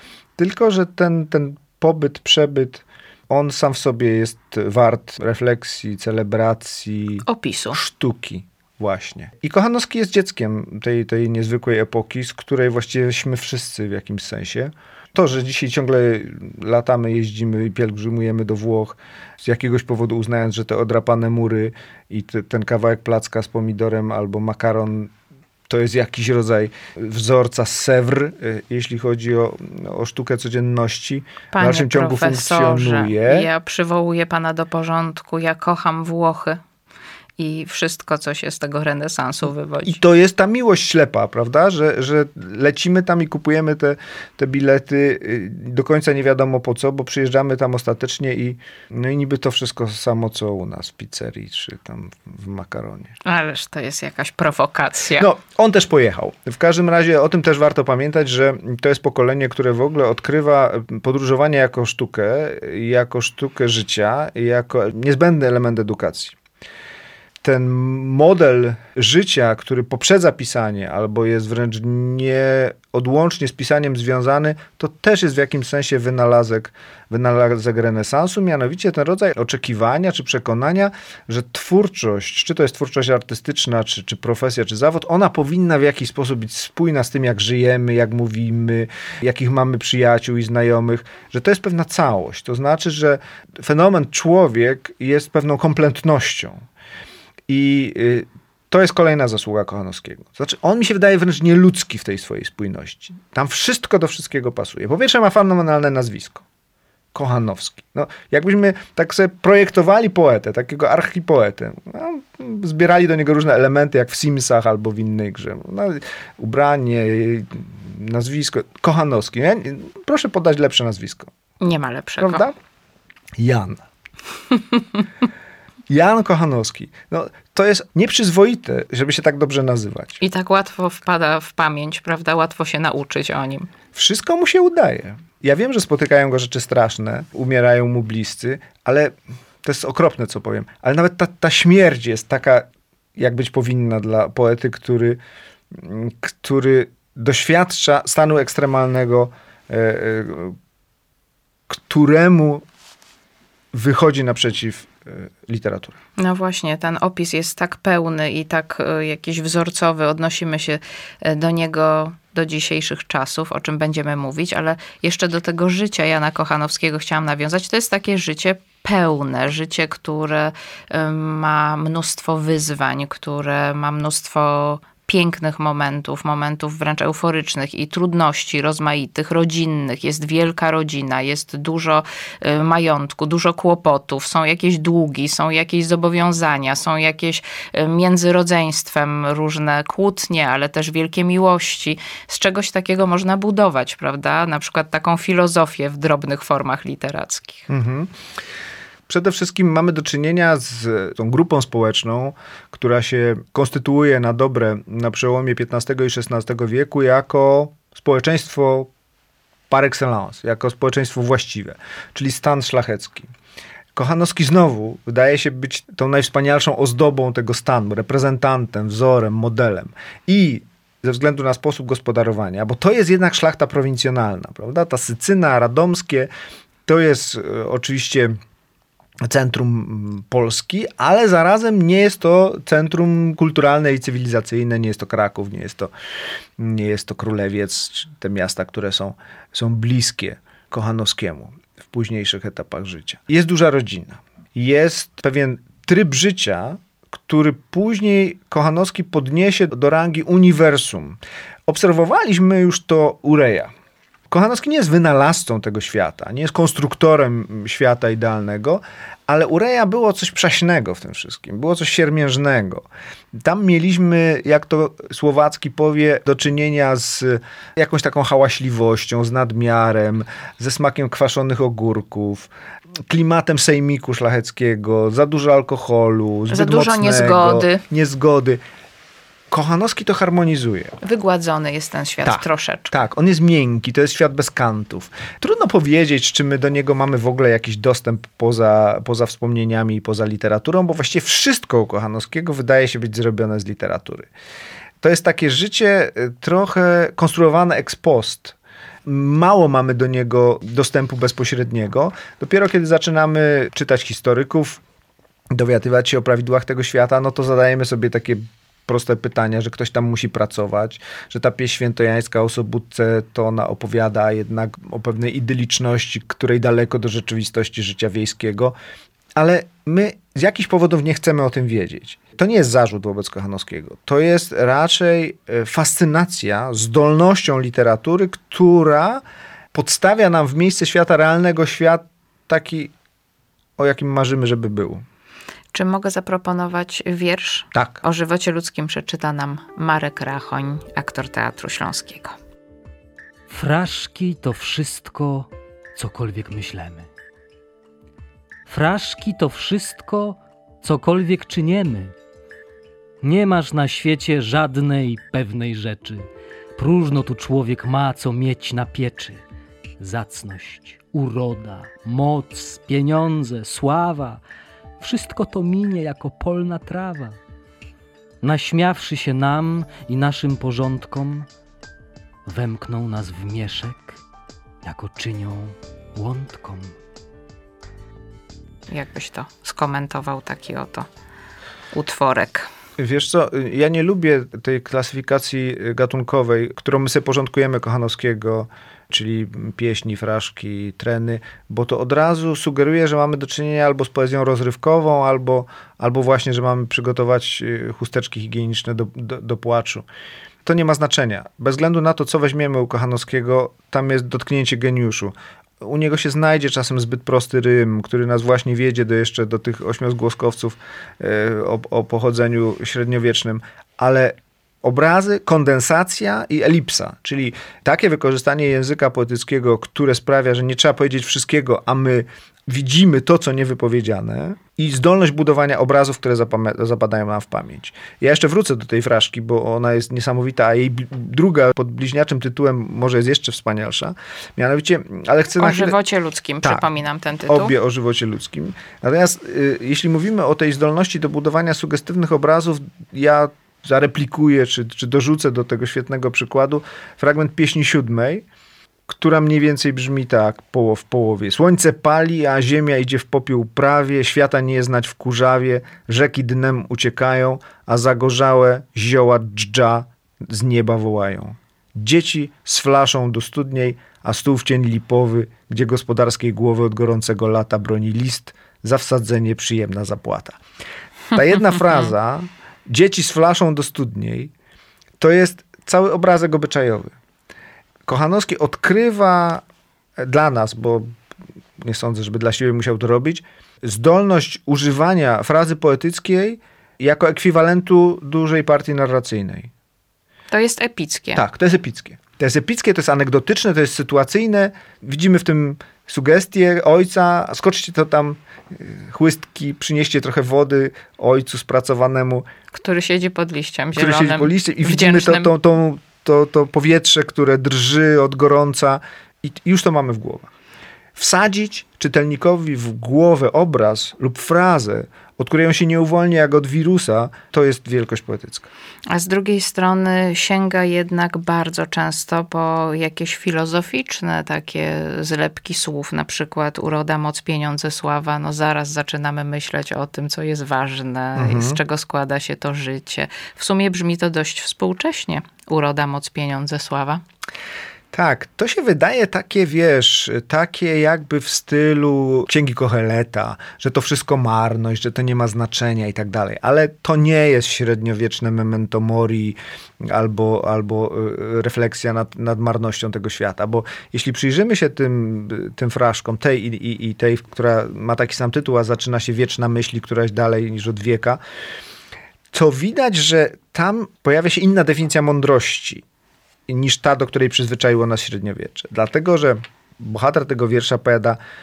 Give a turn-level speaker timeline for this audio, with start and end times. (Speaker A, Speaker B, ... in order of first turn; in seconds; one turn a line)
Speaker A: 0.4-25.1
Speaker B: 7.2-7.8
Speaker A: 25.7-33.5
Speaker B: 31.5-36.6
Speaker B: 37.4-40.0
Speaker A: 39.8-53.1
Speaker B: 53.2-55.3
Speaker A: 55.2-66.3
Speaker A: 67.4-96.6
Speaker A: 97.5-106.4
Speaker A: 107.1-121.3
Speaker B: 121.6-122.5
Speaker A: 122.2-122.5
Speaker A: 123.4-123.8
Speaker A: 125.9-130.2
Speaker B: 130.2-133.7
Speaker A: 133.9-145.2
Speaker A: 145.7-150.6
Speaker A: 151.7-152.6
Speaker A: 153.7-156.0
Speaker B: 156.2-197.7
Speaker A: 197.7-198.1
Speaker A: 199.1-208.9
Speaker A: 209.7-213.3
Speaker A: 213.9-226.3
Speaker A: 226.8-228.4
Speaker A: 229.2-235.9
Speaker A: 236.6-253.7
Speaker A: 254.3-272.5
Speaker A: 273.1-278.6
Speaker B: 276.5-277.8
Speaker A: 279.5-280.9
Speaker B: 281.0-282.9
Speaker A: 282.2-294.3
Speaker A: 295.0-304.8
Speaker A: 305.5-318.7
Speaker A: 319.4-332.9
Speaker A: 333.8-335.0
Speaker B: 335.7-342.4
Speaker A: 337.7-338.0
Speaker C: 343.5-347.1
Speaker C: 348.7-352.1
Speaker C: 353.2-359.4
Speaker C: 360.0-364.4
Speaker C: 365.0-367.4
Speaker C: 368.4-371.5
Speaker C: 372.4-374.2
Speaker C: 374.8-376.9
Speaker B: 378.9-381.1
Speaker B: 381.9-382.7
Speaker A: 383.0-400.1
Speaker A: 400.6-436.0
Speaker B: 435.6-437.7
Speaker A: 436.6-436.9
Speaker A: 437.5-448.4
Speaker A: 449.1-470.6
Speaker A: 471.3-474.5
Speaker A: 475.2-477.1
Speaker A: 478.1-479.6
Speaker A: 480.2-481.1
Speaker A: 481.8-489.7
Speaker B: 490.5-491.4
Speaker A: 491.3-502.4
Speaker B: 502.7-505.5
Speaker A: 503.9-510.5
Speaker A: 511.1-518.7
Speaker B: 519.1-537.2
Speaker A: 531.4-531.8
Speaker A: 538.1-561.4
Speaker A: 562.5-566.0
Speaker A: 566.7-571.4